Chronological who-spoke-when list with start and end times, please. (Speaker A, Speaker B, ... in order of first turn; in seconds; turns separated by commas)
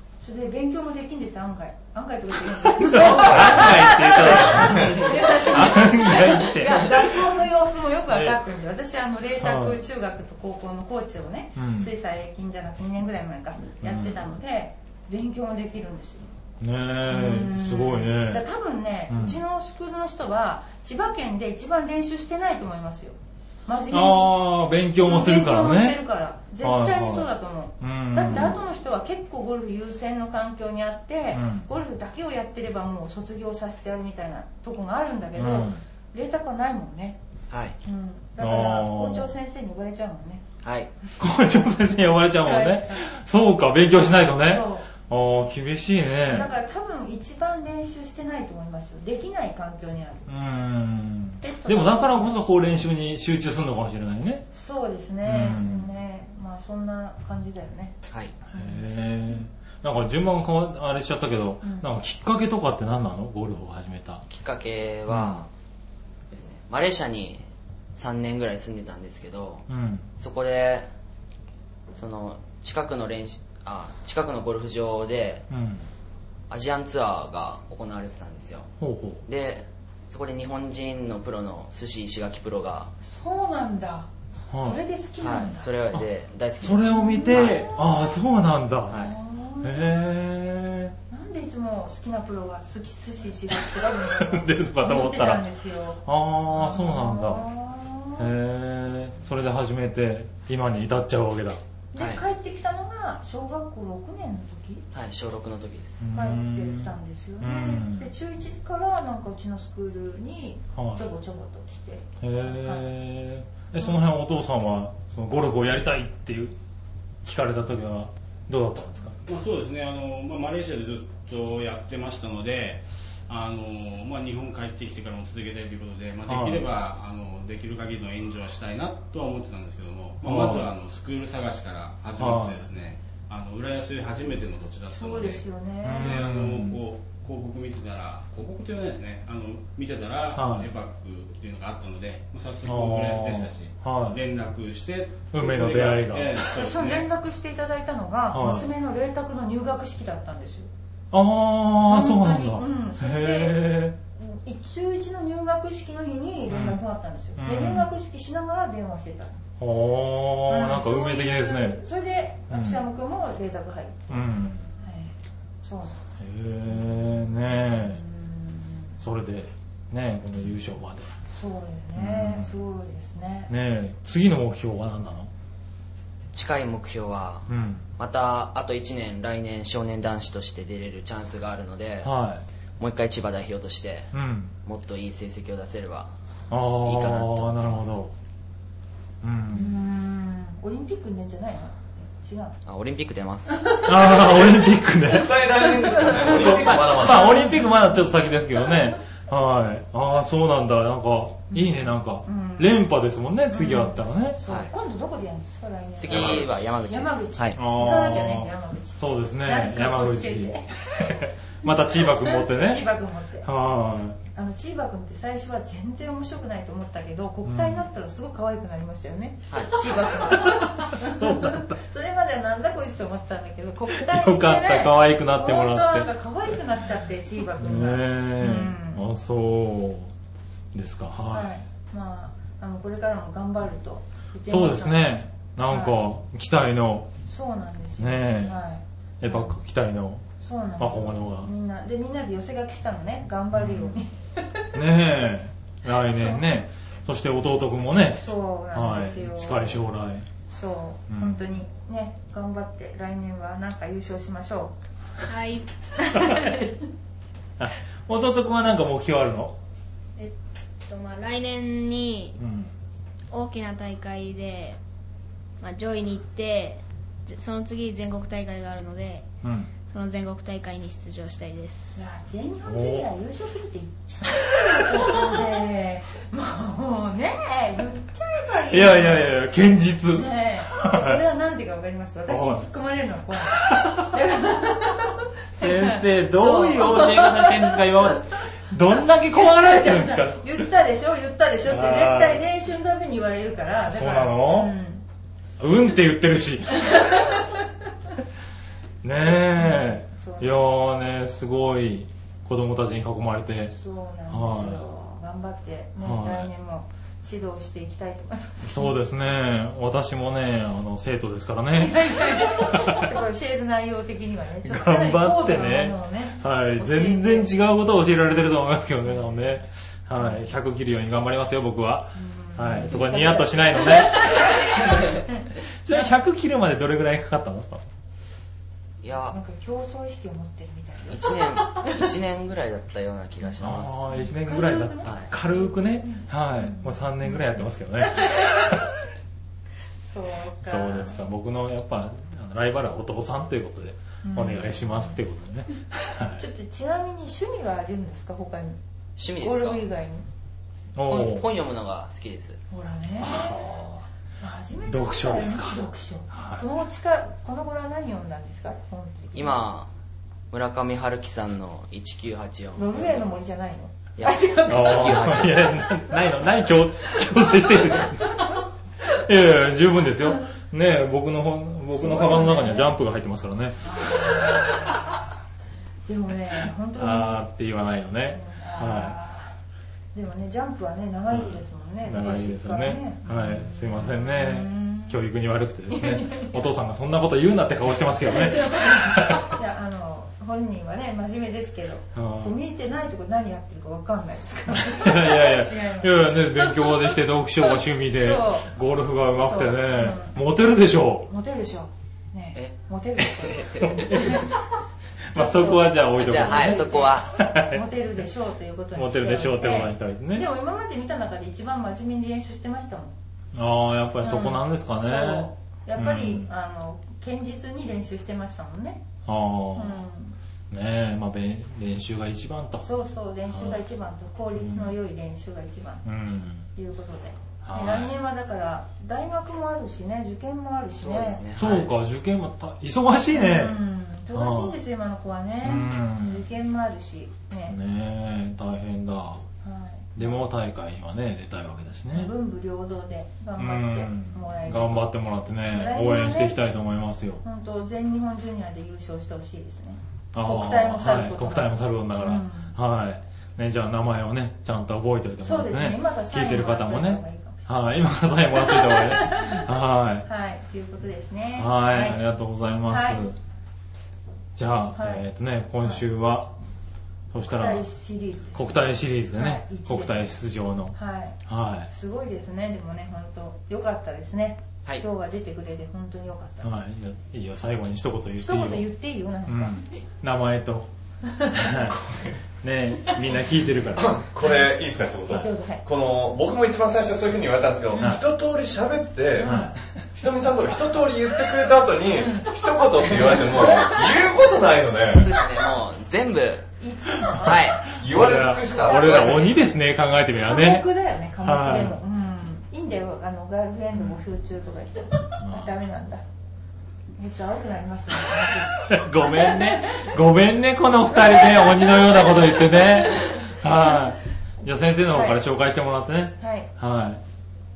Speaker A: 0.2-16.3, Speaker B: 2.5-7.4, Speaker C: 3.0-5.1, Speaker B: 8.1-8.4, Speaker B: 9.4-9.8, Speaker B: 11.6-11.9, Speaker B: 13.8-14.3, Speaker B: 16.6-18.4, Speaker A: 17.1-24.4, Speaker B: 19.1-19.4, Speaker B: 23.9-26.0, Speaker A: 25.0-37.2, Speaker B: 26.6-28.6, Speaker B: 31.3-31.7, Speaker B: 35.4-35.8, Speaker A: 37.8-40.4, Speaker B: 38.4-39.3, Speaker D: 40.6-40.9, Speaker B: 41.2-46.5, Speaker A: 42.4-43.1, Speaker A: 44.1-44.9, Speaker A: 46.3-50.3, Speaker B: 50.3-54.5, Speaker E: 51.5-52.4, Speaker A: 54.5-57.9, Speaker B: 55.2-55.9, Speaker B: 58.5-64.2, Speaker A: 58.5-59.4, Speaker A: 61.6-61.9, Speaker D: 64.3-65.5, Speaker B: 65.1-65.5, Speaker D: 66.3-67.4, Speaker D: 68.0-70.9, Speaker B: 69.7-70.1, Speaker D: 71.9-75.5, Speaker B: 75.5-75.9, Speaker D: 76.5-78.7, Speaker B: 78.8-79.2, Speaker D: 79.3-82.9, Speaker A: 83.0-85.7, Speaker B: 84.5-84.8, Speaker D: 85.2-87.6, Speaker B: 86.6-89.1, Speaker A: 86.9-88.2, Speaker A: 88.9-90.0, Speaker B: 89.6-91.0, Speaker A: 91.1-98.3, Speaker B: 93.5-95.5, Speaker B: 96.0-97.5, Speaker B: 98.2-101.6, Speaker A: 101.9-104.8, Speaker D: 102.0-102.2, Speaker D: 104.9-106.1, Speaker B: 106.0-108.1, Speaker A: 106.1-112.9, Speaker B: 110.8-111.0, Speaker B: 112.2-116.6, Speaker B: 117.2-119.2, Speaker F: 119.3-135.5, Speaker B: 126.3-126.7, Speaker B: 130.2-130.7, Speaker B: 132.2-132.6, Speaker A: 134.9-136.2, Speaker B: 135.8-136.8, Speaker F: 136.0-147.1, Speaker B: 140.3-140.7, Speaker B: 142.7-144.2, Speaker B: 145.3-146.5, Speaker A: 146.5-150.7, Speaker B: 148.3-148.7, Speaker B: 151.1-154.0, Speaker A: 151.9-159.4, Speaker B: 156.5-156.8, Speaker B: 157.4-157.9, Speaker B: 159.6-161.8, Speaker A: 160.5-164.2, Speaker B: 162.5-162.8, Speaker B: 164.1-164.7, Speaker A: 164.8-169.0, Speaker B: 166.2-168.0, Speaker B: 169.0-171.1, Speaker A: 171.3-173.5, Speaker B: 172.0-172.6, Speaker B: 173.5-175.3, Speaker D: 176.3-182.1, Speaker B: 177.5-177.9, Speaker B: 182.0-182.4, Speaker D: 182.8-184.1, Speaker B: 184.1-184.5, Speaker D: 184.7-186.1, Speaker B: 186.5-188.1, Speaker D: 186.8-187.9, Speaker B: 189.2-189.8, Speaker A: 189.5-192.6, Speaker D: 192.7-193.8, Speaker A: 193.5-194.6, Speaker B: 193.8-204.4, Speaker C: 194.9-197.5, Speaker A: 195.6-198.2, Speaker A: 201.5-202.8, Speaker A: 203.5-211.1, Speaker D: 204.5-204.7, Speaker D: 206.0-207.6, Speaker C: 206.1-206.4, Speaker B: 207.6-212.8, Speaker A: 211.7-213.5, Speaker B: 213.4-214.2, Speaker A: 214.3-229.1, Speaker B: 217.4-217.8, Speaker D: 219.5-219.8, Speaker B: 220.1-221.8, Speaker B: 223.9-226.1, Speaker B: 227.6-230.1, Speaker B: 230.7-231.5, Speaker A: 231.3-236.1, Speaker B: 234.5-237.1, Speaker A: 237.3-239.6, Speaker B: 238.0-238.6, Speaker B: 239.2-240.2, Speaker A: 240.4-244.7, Speaker B: 240.8-241.5, Speaker B: 243.5-243.9, Speaker B: 244.7-250.3, Speaker A: 245.9-246.4, Speaker A: 248.1-249.8, Speaker A: 250.5-254.8, Speaker B: 251.1-251.4, Speaker E: 255.3-256.6, Speaker A: 256.0-256.7, Speaker B: 256.2-256.5, Speaker B: 257.6-259.6, Speaker E: 260.9-262.4, Speaker B: 262.4-262.8, Speaker E: 263.3-264.8, Speaker E: 265.6-269.3, Speaker B: 269.4-269.7, Speaker E: 269.8-272.1, Speaker A: 272.0-279.4, Speaker B: 272.7-273.1, Speaker B: 274.6-275.1, Speaker B: 278.7-281.2, Speaker A: 280.1-287.9, Speaker B: 282.3-282.7, Speaker B: 283.6-284.2, Speaker B: 285.6-290.6, Speaker A: 289.3-295.0, Speaker B: 291.7-292.4, Speaker B: 293.9-294.7, Speaker B: 295.6-297.3, Speaker A: 296.8-297.6, Speaker B: 299.0-303.7, Speaker A: 299.5-300.8, Speaker A: 303.7-309.0, Speaker B: 304.3-304.8, Speaker B: 306.0-306.5, Speaker B: 308.7-313.2, Speaker A: 311.8-317.5, Speaker B: 314.6-325.0, Speaker A: 322.1-326.1, Speaker B: 325.8-327.8, Speaker D: 329.0-329.4, Speaker A: 329.3-332.1, Speaker D: 331.1-334.1, Speaker B: 333.6-338.9, Speaker A: 334.1-338.8, Speaker A: 340.1-341.2, Speaker B: 340.6-346.4, Speaker A: 344.2-345.2, Speaker A: 346.4-348.8, Speaker D: 349.2-349.9, Speaker A: 349.4-350.3, Speaker B: 351.0-351.5, Speaker D: 351.1-352.6, Speaker A: 352.7-353.7, Speaker B: 353.2-354.0, Speaker A: 354.4-359.6, Speaker B: 354.9-356.7, Speaker D: 359.4-359.9, Speaker D: 360.5-363.3, Speaker A: 362.8-365.5, Speaker D: 364.2-365.8, Speaker B: 364.7-374.8, Speaker A: 371.9-372.9, Speaker A: 373.8-375.2, Speaker A: 376.1-377.5, Speaker B: 377.0-379.1, Speaker A: 378.3-379.5, Speaker A: 380.1-385.2, Speaker B: 381.3-389.6, Speaker A: 385.9-386.7, Speaker A: 388.2-396.9, Speaker B: 392.1-392.6, Speaker B: 394.8-401.3, Speaker A: 398.1-398.7, Speaker A: 399.4-400.4, Speaker A: 401.3-404.6, Speaker D: 403.4-404.3, Speaker B: 403.8-404.5, Speaker B: 405.2-407.9, Speaker A: 405.3-413.1, Speaker D: 406.1-407.3, Speaker B: 408.9-410.5, Speaker B: 413.5-416.5, Speaker A: 414.2-419.1, Speaker B: 419.3-420.1, Speaker A: 419.7-420.4, Speaker B: 420.7-422.9, Speaker A: 422.8-426.1, Speaker B: 423.5-423.8, Speaker B: 424.6-424.9, Speaker B: 426.1-426.7, Speaker A: 426.7-431.4, Speaker B: 427.6-428.1, Speaker D: 431.0-431.9, Speaker B: 431.6-433.8, Speaker A: 433.3-437.8, Speaker B: 434.3-434.8, Speaker B: 435.6-436.5, Speaker B: 437.7-439.5, Speaker A: 439.6-440.3, Speaker B: 440.2-442.3, Speaker A: 442.1-445.1, Speaker B: 443.6-447.4, Speaker A: 445.7-446.6, Speaker A: 447.4-452.7, Speaker B: 450.3-460.3, Speaker A: 455.4-457.7, Speaker A: 458.6-459.7, Speaker A: 460.2-462.2, Speaker B: 461.6-463.4, Speaker A: 462.9-463.3, Speaker B: 464.6-466.5, Speaker A: 464.9-465.3, Speaker B: 467.3-467.9, Speaker A: 467.4-470.4, Speaker B: 468.5-471.9, Speaker A: 470.9-476.7, Speaker B: 476.6-478.9, Speaker A: 478.4-479.9, Speaker B: 479.5-480.9, Speaker A: 481.2-481.9, Speaker B: 481.5-482.0, Speaker C: 481.9-482.4, Speaker B: 482.6-484.3, Speaker C: 483.9-495.3, Speaker A: 485.3-485.8, Speaker A: 487.9-488.2, Speaker A: 489.4-489.8, Speaker B: 489.4-489.8, Speaker A: 492.1-492.5, Speaker A: 493.1-493.8, Speaker D: 495.1-496.7, Speaker A: 496.8-497.6, Speaker D: 497.3-497.9, Speaker B: 497.4-500.9, Speaker C: 497.8-499.5, Speaker D: 498.9-499.5, Speaker A: 500.4-506.2, Speaker B: 501.4-502.0, Speaker B: 505.4-505.7, Speaker A: 507.2-510.0, Speaker B: 508.9-517.2, Speaker A: 511.6-512.1, Speaker A: 515.1-515.5, Speaker A: 516.4-516.7